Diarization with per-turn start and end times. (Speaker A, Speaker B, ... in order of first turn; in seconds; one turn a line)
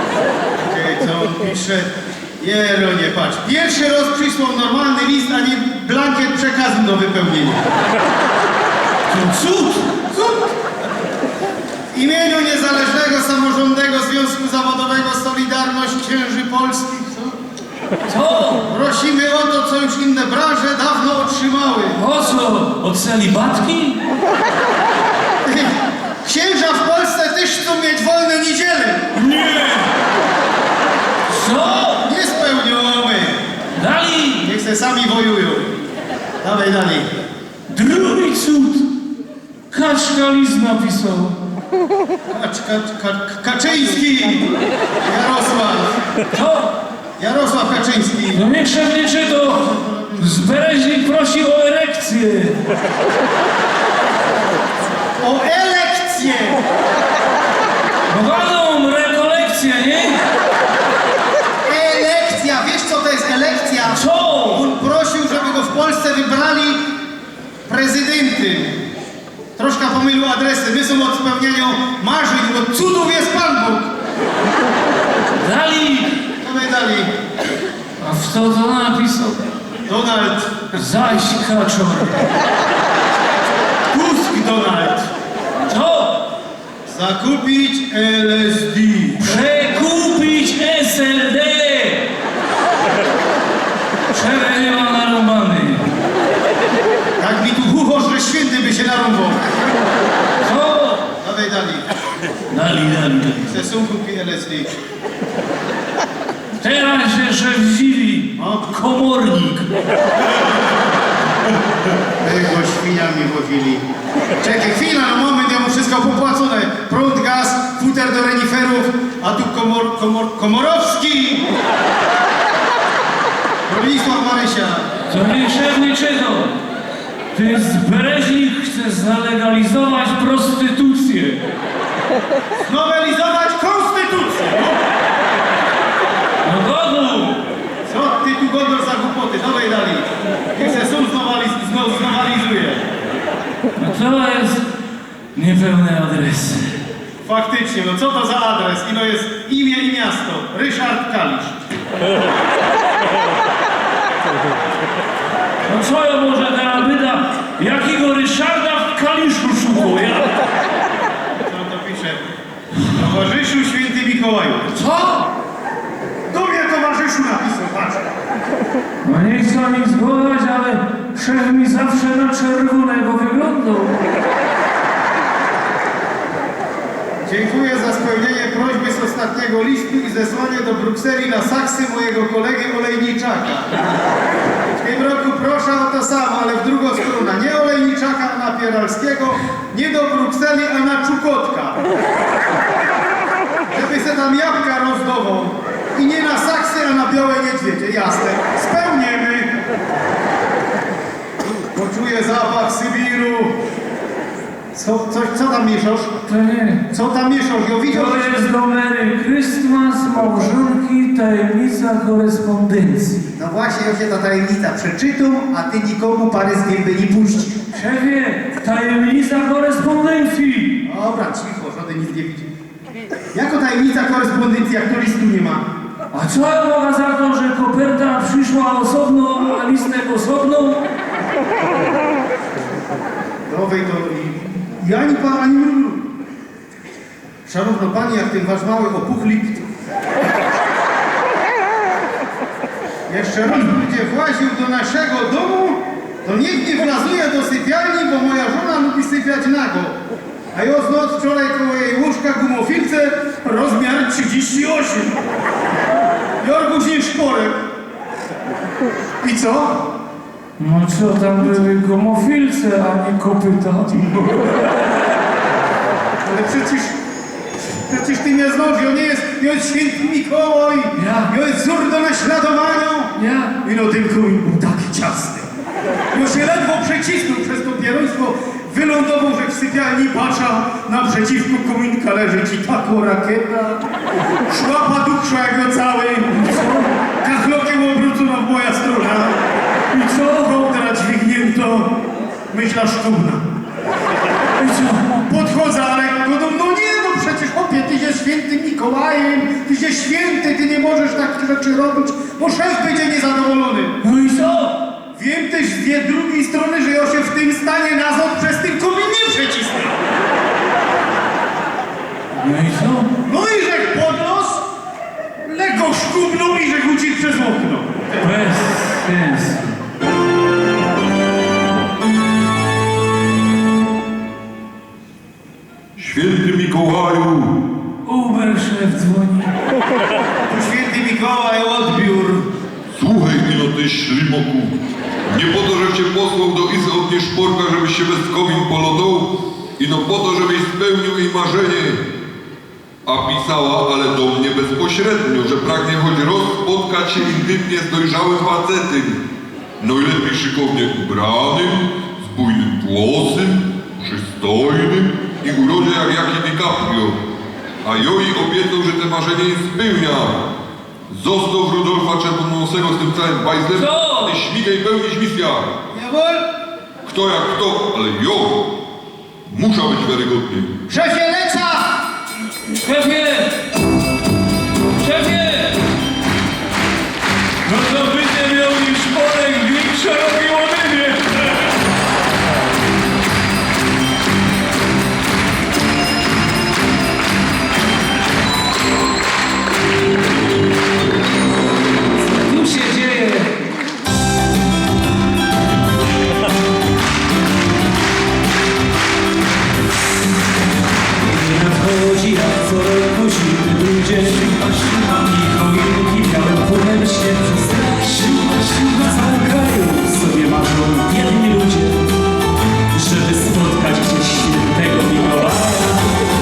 Speaker A: 0.6-7.6
Speaker B: 9.1-9.9
Speaker A: 10.1-10.5
Speaker A: 11.9-17.3
Speaker B: 18.1-18.6
Speaker A: 18.6-22.0
Speaker B: 21.9-24.0
Speaker A: 25.4-29.1
Speaker B: 29.2-29.8
Speaker B: 31.3-32.0
Speaker A: 32.0-33.4
Speaker B: 33.8-34.5
Speaker A: 34.4-35.7
Speaker A: 36.4-37.1
Speaker B: 37.7-38.9
Speaker B: 39.7-41.4
Speaker A: 42.3-44.5
Speaker A: 45.0-46.0
Speaker B: 46.3-46.7
Speaker A: 47.2-48.5
Speaker B: 48.3-49.6
Speaker A: 49.4-50.4
Speaker B: 50.2-52.6
Speaker A: 55.2-56.6
Speaker B: 58.1-60.2
Speaker A: 61.6-66.8
Speaker B: 63.9-64.6
Speaker A: 67.7-68.8
Speaker A: 69.6-73.9
Speaker B: 75.4-76.1
Speaker A: 76.4-77.1
Speaker B: 78.0-79.4
Speaker A: 79.9-80.8
Speaker B: 80.8-82.2
Speaker A: 83.9-85.1
Speaker B: 85.6-86.2
Speaker A: 86.9-89.7
Speaker B: 89.2-92.1
Speaker B: 94.1-95.9
Speaker A: 97.2-99.5
Speaker B: 100.4-101.0
Speaker A: 101.2-101.9
Speaker B: 102.5-103.6
Speaker A: 103.5-104.7
Speaker B: 106.6-109.7
Speaker A: 108.4-108.8
Speaker A: 112.2-113.8
Speaker A: 114.4-121.4
Speaker A: 123.7-124.9
Speaker B: 125.1-126.5
Speaker B: 127.3-131.4
Speaker A: 132.7-134.8
Speaker B: 136.4-137.4
Speaker A: 137.9-142.8
Speaker B: 143.7-144.6
Speaker B: 145.3-146.8
Speaker A: 147.2-151.6
Speaker B: 155.6-160.3
Speaker A: 161.4-162.2
Speaker A: 162.8-164.7
Speaker B: 164.7-165.3
Speaker A: 166.3-168.1
Speaker B: 169.0-174.1
Speaker A: 177.2-183.9
Speaker A: 184.8-191.8
Speaker A: 193.7-199.5
Speaker A: 201.7-203.6
Speaker A: 204.7-206.1
Speaker B: 206.2-206.8
Speaker A: 206.9-208.4
Speaker B: 207.9-213.3
Speaker A: 213.3-217.6
Speaker B: 217.7-220.7
Speaker A: 220.8-222.5
Speaker A: 223.3-225.6
Speaker B: 226.1-230.8
Speaker A: 233.5-236.0
Speaker A: 237.5-239.7
Speaker A: 243.1-249.9
Speaker A: 250.5-255.2
Speaker A: 256.4-257.6
Speaker A: 259.2-259.8
Speaker B: 260.6-264.7
Speaker A: 266.2-266.9
Speaker A: 267.9-275.5
Speaker B: 270.9-271.3
Speaker B: 273.1-273.5
Speaker A: 276.1-283.8
Speaker A: 284.5-286.4
Speaker B: 286.3-286.9
Speaker A: 287.2-289.3
Speaker A: 289.9-291.9
Speaker A: 292.5-293.4
Speaker B: 294.6-295.3
Speaker A: 295.3-304.0
Speaker B: 304.0-304.8
Speaker A: 305.1-309.9
Speaker B: 312.3-313.1
Speaker A: 313.2-314.6
Speaker A: 315.4-318.2
Speaker B: 318.2-319.7
Speaker C: 326.0-327.5
Speaker B: 328.0-329.5
Speaker A: 330.5-332.5
Speaker C: 332.9-334.7
Speaker C: 335.3-342.0
Speaker C: 343.1-349.2
Speaker C: 349.8-357.2
Speaker C: 357.8-360.4
Speaker C: 361.1-365.7
Speaker B: 363.7-364.3
Speaker A: 365.9-366.4
Speaker C: 367.0-368.7
Speaker C: 369.5-370.7
Speaker A: 370.9-372.0
Speaker B: 372.7-373.6
Speaker B: 375.0-375.8
Speaker B: 377.6-381.5
Speaker B: 392.4-393.5
Speaker B: 401.2-412.0
Speaker B: 412.9-415.9